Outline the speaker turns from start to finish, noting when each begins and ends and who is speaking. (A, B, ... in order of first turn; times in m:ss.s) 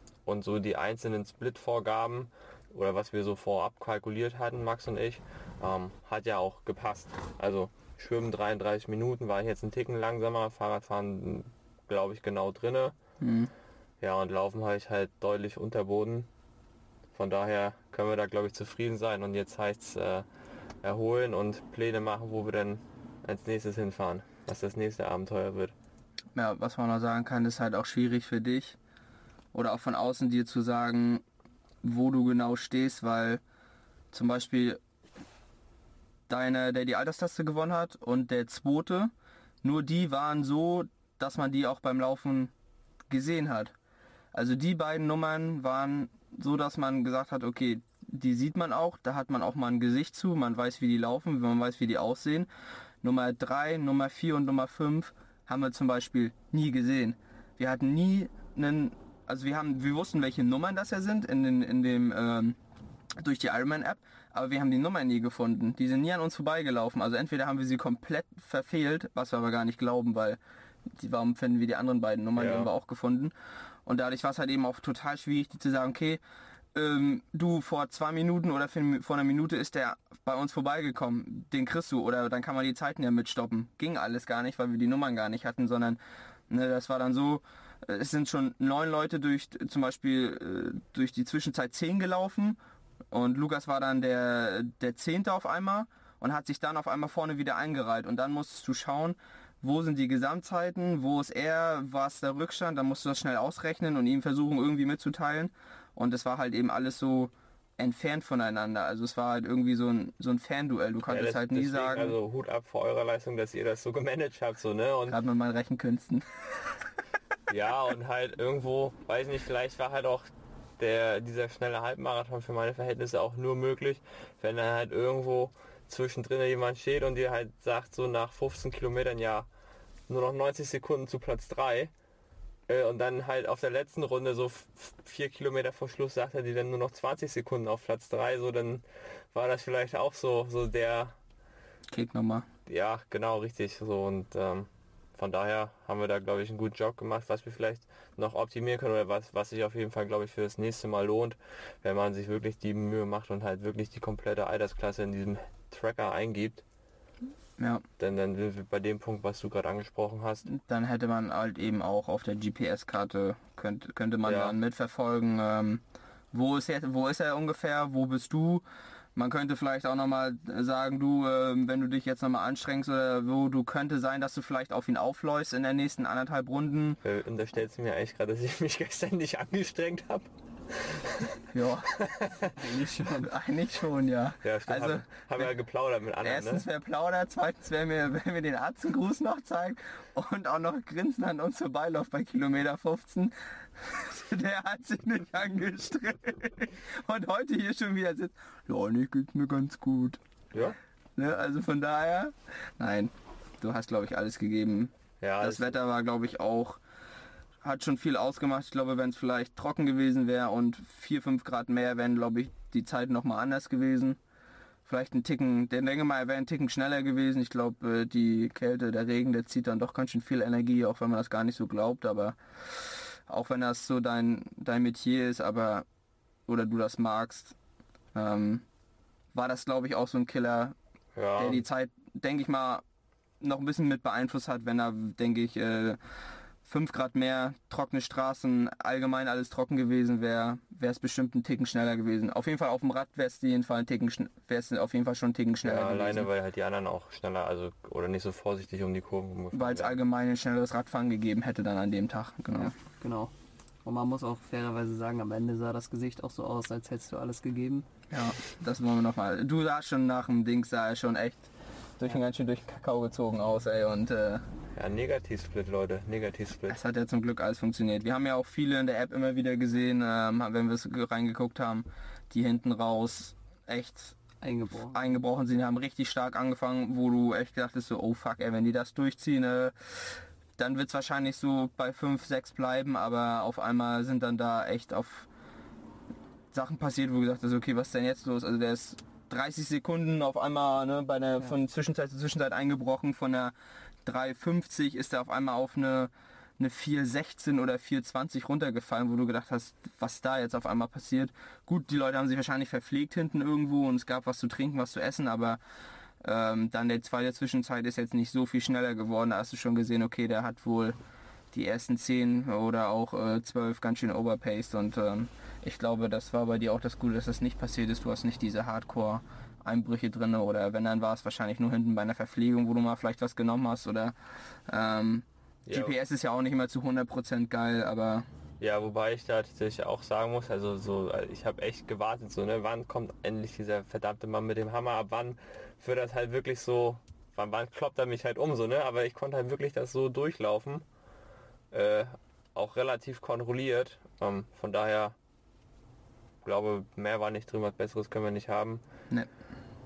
0:00.3-0:13.0 A
0:13.2-0:13.5 B
0:14.0-0:16.3 A
0:17.2-0:20.3 A
0:20.8-0:25.7 A
0:26.4-0:28.8 B
0:29.5-0:31.2 B
0:31.8-0:33.4 B
0:34.1-0:34.8 B
0:36.3-0:39.1 B
0:39.6-0:42.5 B
0:43.1-0:43.7 B
0:44.3-0:52.5 B
0:53.0-1:02.6 B
1:03.2-1:10.4 B
1:11.0-1:13.3 B
1:12.4-1:12.7 A
1:13.9-1:16.2 B
1:16.8-1:32.6 B
1:33.1-1:52.2 B
1:51.1-1:55.2 A
1:55.1-1:56.2 B
1:57.5-2:09.5 A
2:10.1-2:11.9 A
2:12.7-2:21.2 A
2:21.9-2:22.5 B
2:22.7-2:36.6 A
2:37.6-2:37.8 B
2:38.0-2:40.5 A
2:40.5-2:48.6 B
2:44.2-2:44.6 A
2:49.2-2:57.0 B
2:57.0-3:01.4 A
3:01.5-3:01.9 B
3:01.9-3:02.5 A
3:02.5-3:03.3 C
3:03.2-3:05.5 B
3:04.4-3:06.6 A
3:06.2-3:26.8 B
3:25.2-3:25.8 A
3:27.6-3:34.2 B
3:34.9-3:42.4 B
3:43.3-3:45.8 B
3:46.5-3:47.6 B
3:48.1-3:48.6 B
3:49.3-3:50.8 B
3:51.2-3:51.6 A
3:51.4-3:52.8 B
3:53.4-3:56.0 B
3:56.6-4:06.3 B
4:05.6-4:10.0 A
4:09.5-4:12.7 B
4:12.5-4:13.3 C
4:13.8-4:17.9 C
4:18.1-4:24.4 B
4:24.8-4:26.8 A
4:26.7-4:34.2 B
4:34.4-4:35.2 C
4:34.9-4:39.7 B
4:40.6-4:45.3 B
4:46.5-4:53.5 B
4:54.0-5:05.6 B
5:06.2-5:11.0 B
5:11.5-5:24.2 B
5:24.7-5:28.2 B
5:25.7-5:26.0 A
5:28.6-5:40.8 A
5:41.7-5:45.2 A
5:46.4-5:48.8 A